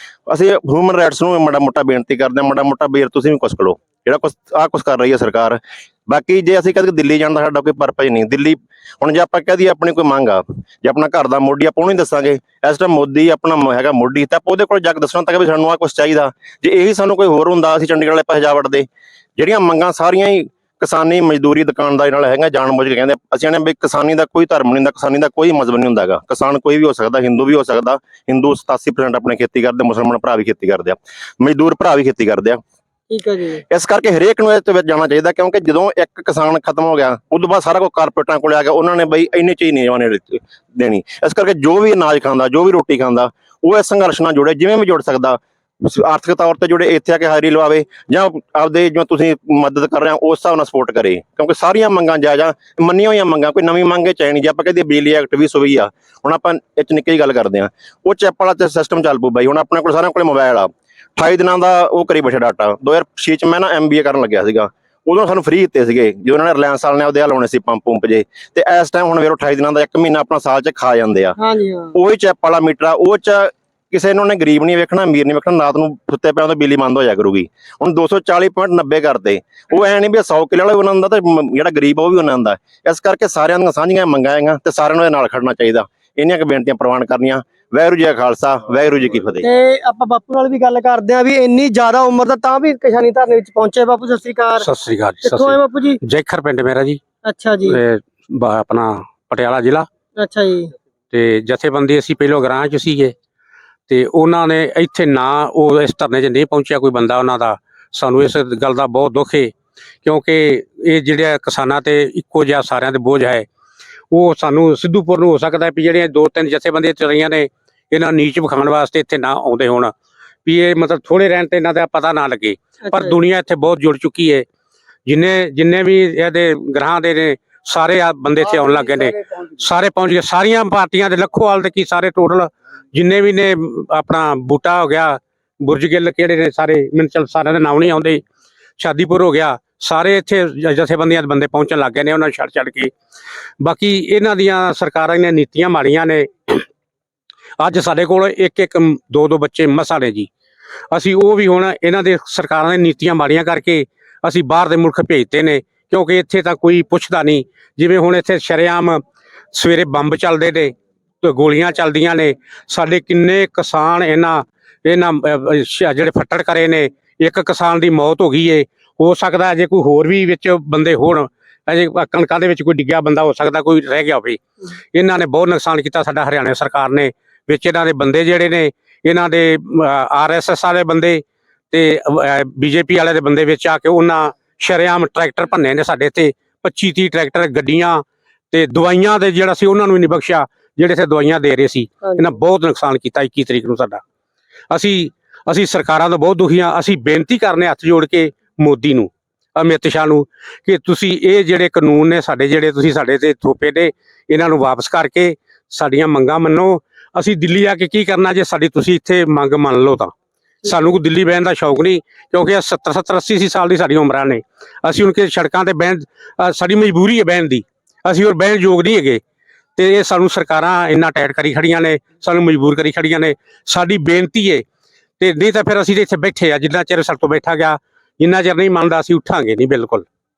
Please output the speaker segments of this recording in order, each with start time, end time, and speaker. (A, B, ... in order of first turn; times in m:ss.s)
0:00.3-0:32.6 A
0:33.1-0:33.6 B
0:33.7-1:11.4 A
1:11.4-1:12.0 B
1:12.0-1:29.4 A
1:29.4-1:34.7 B
1:34.6-1:37.0 C
1:35.2-1:36.0 B
1:37.2-1:37.8 B
1:37.7-1:39.9 C
1:40.2-1:40.7 B
1:41.1-1:43.2 C
1:43.9-1:49.5 C
1:50.0-1:53.5 C
1:54.1-1:59.9 C
2:00.4-2:04.5 C
2:02.8-2:03.2 B
2:05.1-2:18.2 C
2:18.8-2:22.9 C
2:23.6-2:26.7 C
2:27.6-2:30.3 C
2:30.9-2:39.0 C
2:39.5-2:54.4 C
2:54.9-3:14.0 C
3:12.0-3:12.3 B
3:14.7-3:30.1 C
3:30.6-3:31.0 B
3:30.7-3:39.2 C
3:39.8-3:44.6 C
3:45.2-3:50.1 C